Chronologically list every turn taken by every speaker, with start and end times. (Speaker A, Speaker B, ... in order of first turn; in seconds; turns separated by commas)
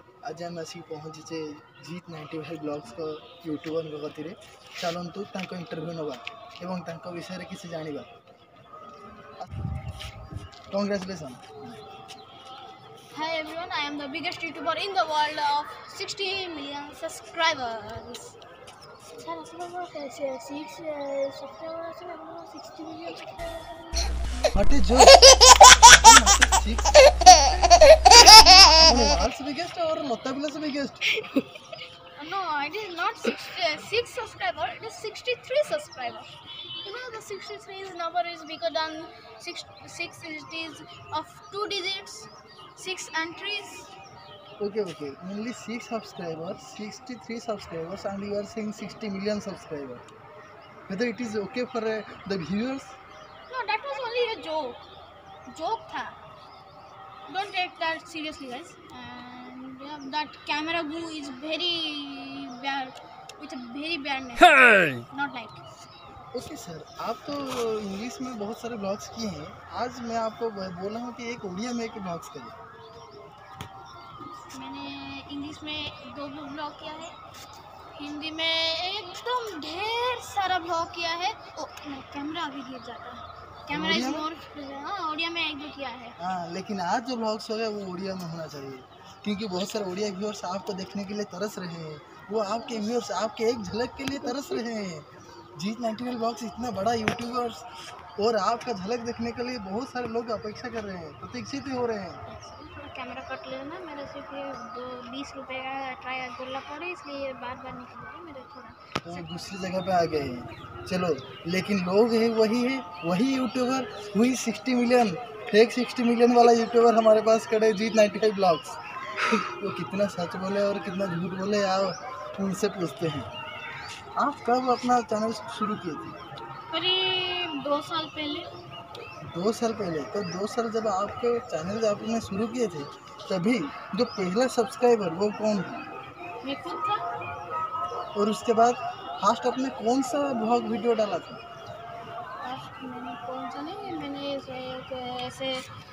Speaker A: 0.2-8.1, Speaker A: 10.7-11.5, Speaker B: 13.1-18.4, Speaker B: 19.2-23.5, Speaker A: 24.5-27.4, Speaker A: 28.1-31.1, Speaker B: 32.2-43.9, Speaker A: 44.6-50.0, Speaker A: 50.9-53.0, Speaker B: 53.5-54.9, Speaker B: 55.5-56.2, Speaker B: 57.3-65.6, Speaker A: 66.3-72.6, Speaker B: 74.5-77.2, Speaker B: 78.0-86.1, Speaker A: 83.7-84.3, Speaker A: 86.2-102.2, Speaker B: 102.3-109.2, Speaker A: 109.0-123.3, Speaker A: 124.2-126.2, Speaker B: 126.7-128.5, Speaker A: 129.3-135.8, Speaker B: 136.4-137.1, Speaker A: 138.2-141.4, Speaker B: 142.4-145.7